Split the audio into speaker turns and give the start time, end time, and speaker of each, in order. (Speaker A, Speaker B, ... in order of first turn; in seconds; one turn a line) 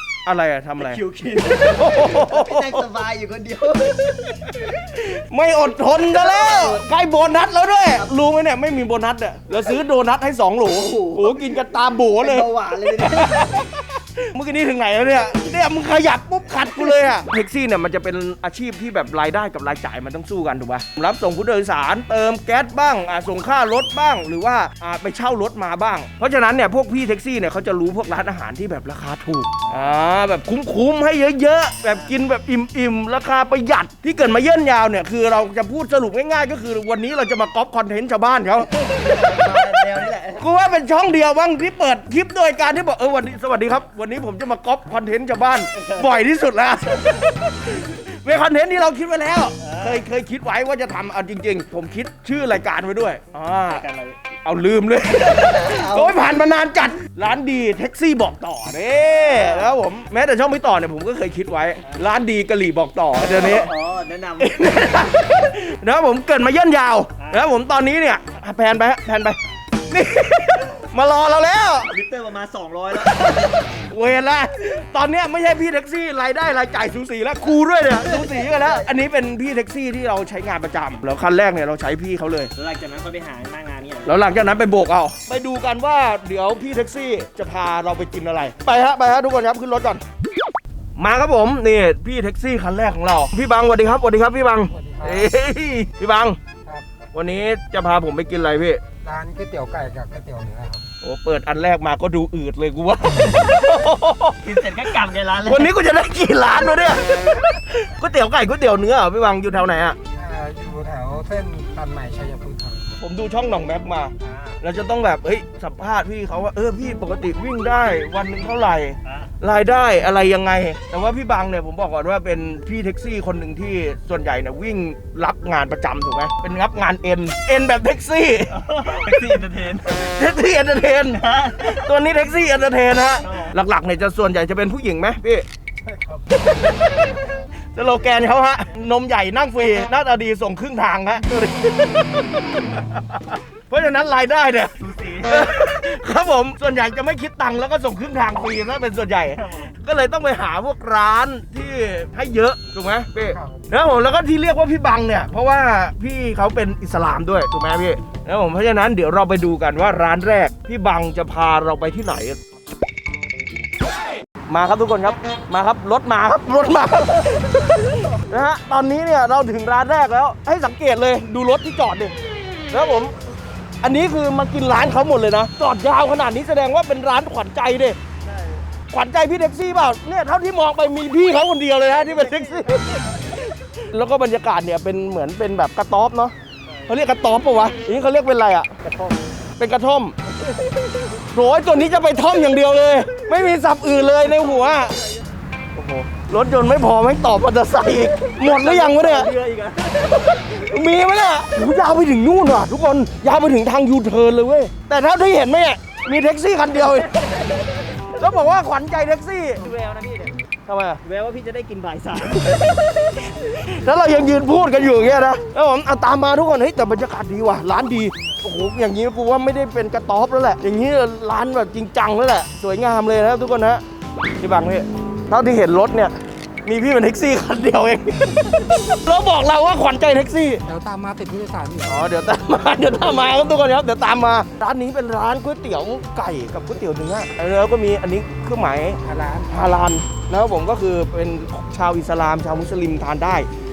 Speaker A: 0.2-1.0
Speaker B: 0.8-4.4
Speaker A: 1.7-2.9
Speaker A: 4.5-39.8
Speaker B: 6.1-6.8
Speaker B: 10.8-13.6
Speaker B: 38.7-40.4
Speaker A: 40.4-53.8
Speaker B: 45.8-46.1
Speaker B: 46.9-47.2
Speaker B: 49.6-50.0
Speaker B: 53.6-54.2
Speaker A: 54.4-63.7
Speaker B: 55.2-56.4
Speaker B: 59.0-59.7
Speaker B: 63.2-64.9
Speaker A: 64.4-69.4
Speaker A: 69.9-71.9
Speaker B: 71.9-73.5
Speaker A: 73.2-82.5
Speaker B: 78.0-78.9
Speaker B: 82.5-84.3
Speaker A: 84.0-90.0
Speaker A: 91.0-96.4
Speaker C: 94.7-95.3
Speaker A: 97.1-98.8
Speaker C: 99.0-100.8
Speaker A: 101.0-104.4
Speaker B: 104.4-105.7
Speaker A: 105.5-110.0
Speaker C: 110.1-112.9
Speaker A: 113.0-128.6
Speaker B: 114.2-114.5
Speaker B: 128.5-130.0
Speaker A: 129.9-135.4
Speaker B: 131.2-131.9
Speaker B: 133.2-133.5
Speaker B: 135.8-136.2
Speaker A: 136.4-136.9
Speaker A: 137.7-162.4
Speaker B: 144.8-145.5
Speaker B: 149.2-149.7
Speaker C: 153.3-153.6
Speaker A: 164.5-172.1
Speaker A: 172.7-173.1
Speaker A: 173.8-178.0
Speaker B: 178.2-178.6
Speaker A: 178.9-186.3
Speaker B: 182.0-183.0
Speaker A: 186.9-188.7
Speaker B: 188.8-189.2
Speaker A: 189.6-190.2
Speaker B: 190.3-191.2
Speaker A: 191.3-195.0
Speaker B: 194.3-195.0
Speaker A: 195.7-199.3
Speaker B: 198.1-200.7
Speaker A: 200.4-207.2
Speaker B: 206.7-208.2
Speaker A: 208.2-209.6
Speaker B: 209.6-210.4
Speaker A: 210.7-211.0
Speaker B: 211.0-212.9
Speaker A: 212.4-223.8
Speaker A: 224.4-226.1
Speaker A: 226.6-230.6
Speaker C: 230.7-232.2
Speaker A: 231.8-243.5
Speaker C: 239.0-239.8